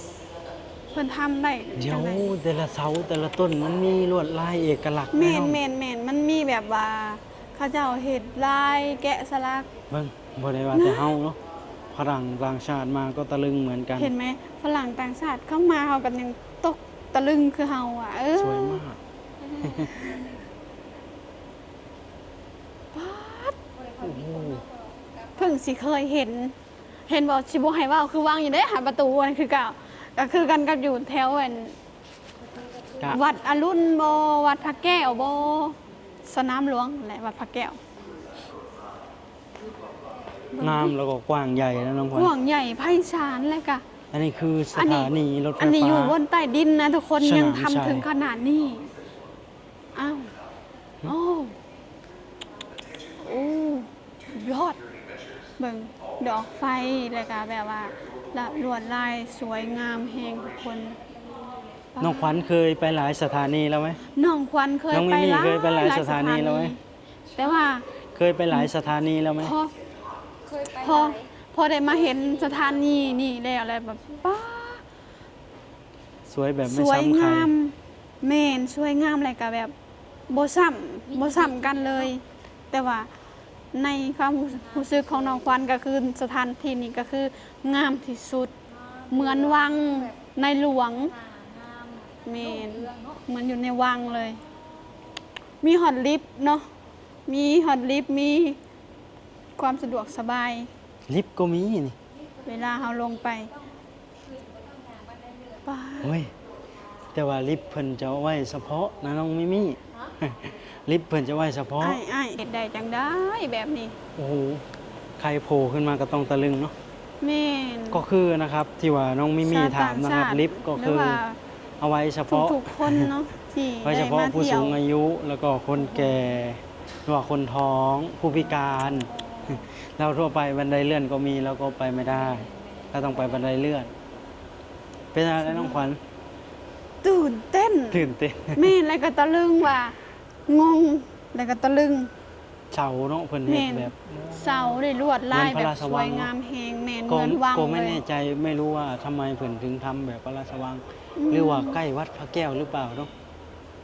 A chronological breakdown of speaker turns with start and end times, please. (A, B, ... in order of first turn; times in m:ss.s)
0:00.9-0:02.3 A
0:01.8-0:05.6 B
0:05.1-0:09.7 A
0:09.9-0:11.4 B
0:10.7-0:11.2 A
0:11.9-0:14.1 B
0:14.0-0:18.8 A
0:18.4-0:19.0 B
0:19.5-0:20.4 C
0:19.6-0:19.9 B
0:22.9-0:23.6 A
0:23.7-0:25.6 C
0:24.0-0:24.6 B
0:25.4-0:26.5 A
0:27.1-0:31.8 A
0:32.6-0:33.4 C
0:33.1-0:37.8 A
0:40.6-0:40.9 A
0:40.6-0:42.3 B
0:42.1-0:43.8 A
0:44.1-0:46.2 B
0:44.7-0:48.8 A
0:47.2-0:48.0 B
0:49.9-0:50.3 A
0:51.0-0:51.5 A
0:53.2-0:54.8 A
0:55.6-1:01.0 A
1:01.1-1:01.9 C
1:02.0-1:02.4 A
1:02.0-1:04.0 B
1:04.1-1:06.8 A
1:04.9-1:06.8 B
1:07.4-1:07.8 A
1:08.2-1:09.5 B
1:09.4-1:09.7 A
1:10.4-1:11.3 C
1:10.8-1:14.8 A
1:11.8-1:13.2 C
1:16.2-1:17.5 B
1:16.7-1:19.7 A
1:20.3-1:23.1 A
1:21.1-1:22.1 C
1:23.7-1:28.5 A
1:24.5-1:25.5 C
1:28.7-1:30.2 C
1:29.1-1:31.1 A
1:30.8-1:33.2 C
1:32.2-1:34.4 A
1:35.6-1:36.6 A
1:37.3-1:38.6 A
1:39.6-1:40.7 A
1:41.1-1:42.0 B
1:42.4-1:43.7 C
1:42.4-1:43.5 A
1:44.2-1:45.6 C
1:45.6-1:46.2 A
1:46.0-1:46.3 B
1:47.1-1:52.0 B
1:51.8-1:54.0 A
1:54.2-1:54.6 B
1:55.2-1:56.7 B
1:57.2-1:58.0 A
1:57.9-2:01.2 B
1:59.4-2:01.4 A
2:01.8-2:03.1 B
2:02.3-2:04.8 A
2:03.8-2:13.9 B
2:05.9-2:06.1 A
2:08.9-2:09.7 C
2:12.1-2:13.4 C
2:15.1-2:16.0 B
2:15.4-2:15.8 A
2:17.0-2:20.0 A
2:17.9-2:18.7 B
2:20.5-2:22.1 A
2:22.7-2:26.3 B
2:23.4-2:28.0 A
2:27.1-2:33.1 B
2:31.2-2:31.8 A